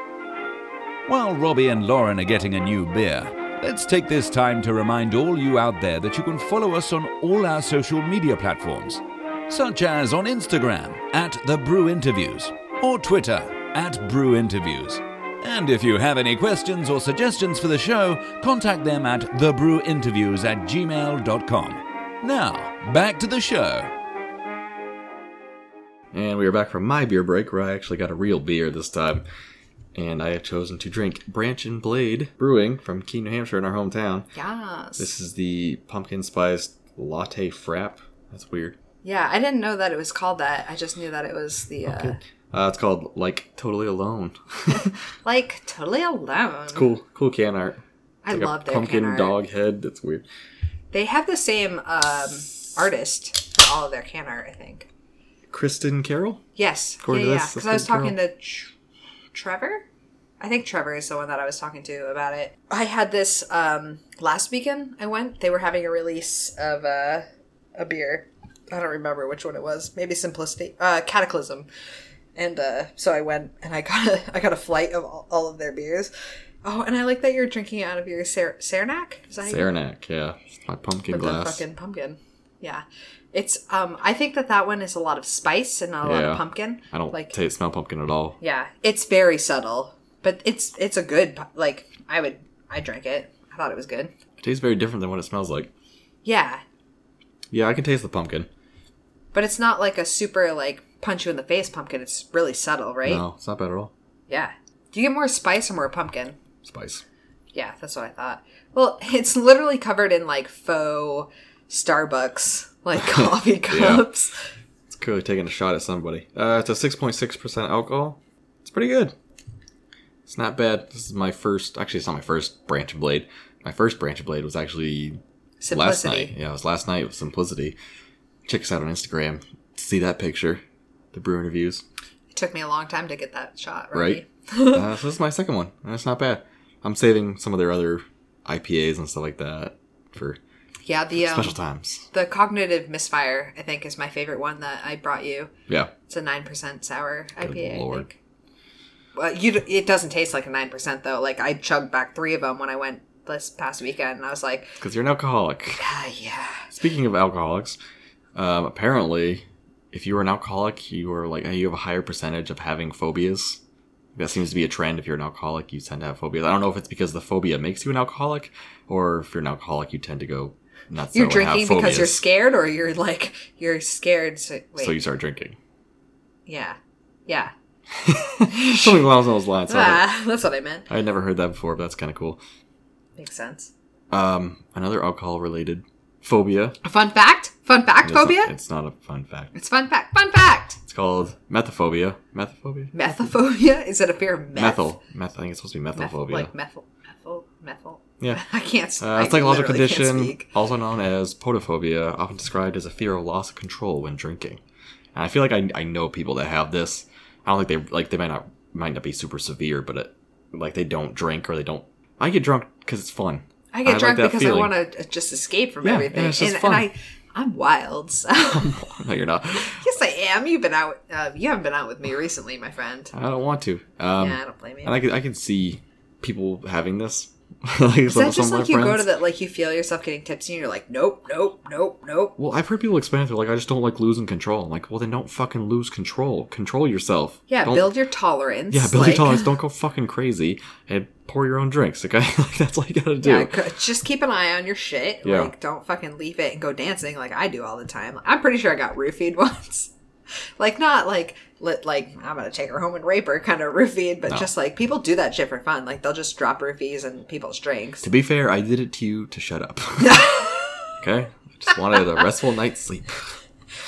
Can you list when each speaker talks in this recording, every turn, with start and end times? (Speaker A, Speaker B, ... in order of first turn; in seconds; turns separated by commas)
Speaker A: 1.1-23.9, Speaker B: 26.1-29.2, Speaker B: 29.9-34.3, Speaker C: 34.3-35.1, Speaker B: 35.0-38.8, Speaker C: 39.0-42.2, Speaker B: 41.9-45.0, Speaker C: 44.7-46.9, Speaker B: 46.7-50.2, Speaker C: 48.2-49.4, Speaker C: 50.9-54.9, Speaker B: 55.5-56.4, Speaker C: 56.6-58.7, Speaker B: 57.0-58.2, Speaker C: 59.3-59.9, Speaker C: 60.4-71.7, Speaker C: 72.4-76.1, Speaker C: 76.6-79.7, Speaker B: 79.5-81.6, Speaker C: 81.1-87.3, Speaker B: 86.0-88.4, Speaker C: 88.4-94.1, Speaker B: 94.4-95.7, Speaker C: 96.2-96.6, Speaker B: 97.5-98.5, Speaker C: 99.3-103.2, Speaker B: 103.0-103.9, Speaker C: 104.3-106.4, Speaker B: 106.6-107.0, Speaker C: 107.5-114.4, Speaker B: 113.7-114.1, Speaker B: 114.9-119.2, Speaker B: 120.3-127.8, Speaker C: 125.6-126.3, Speaker B: 128.5-130.6, Speaker B: 131.1-131.8, Speaker C: 132.3-134.9, Speaker B: 133.9-140.4, Speaker C: 140.8-141.6, Speaker B: 141.2-142.1, Speaker C: 142.1-145.5, Speaker C: 146.1-148.2, Speaker B: 147.4-148.1, Speaker C: 149.2-154.8, Speaker B: 154.8-155.8, Speaker C: 155.8-156.7, Speaker B: 156.7-157.8, Speaker B: 158.3-163.6, Speaker B: 164.2-172.2, Speaker C: 171.1-175.0, Speaker B: 174.8-175.6, Speaker C: 176.5-177.5, Speaker B: 178.0-180.1, Speaker C: 178.5-179.0, Speaker C: 179.7-180.9, Speaker B: 180.9-182.4, Speaker C: 183.2-183.7, Speaker B: 184.1-186.8, Speaker C: 186.8-188.5, Speaker B: 188.0-189.5, Speaker C: 189.6-190.8, Speaker B: 190.9-192.9, Speaker C: 192.9-194.9, Speaker B: 194.6-196.5, Speaker C: 196.0-200.5, Speaker B: 199.0-204.6, Speaker B: 205.2-214.7, Speaker C: 213.7-218.8, Speaker B: 215.8-216.9, Speaker B: 218.4-219.8, Speaker C: 219.8-223.1, Speaker B: 223.1-229.1, Speaker C: 224.2-224.9, Speaker C: 228.1-232.3, Speaker B: 232.4-237.9, Speaker C: 237.5-239.5, Speaker B: 238.7-243.6, Speaker C: 243.2-249.9, Speaker B: 245.2-245.5, Speaker C: 250.6-258.1, Speaker B: 258.0-260.4, Speaker C: 260.0-260.9, Speaker B: 261.0-263.3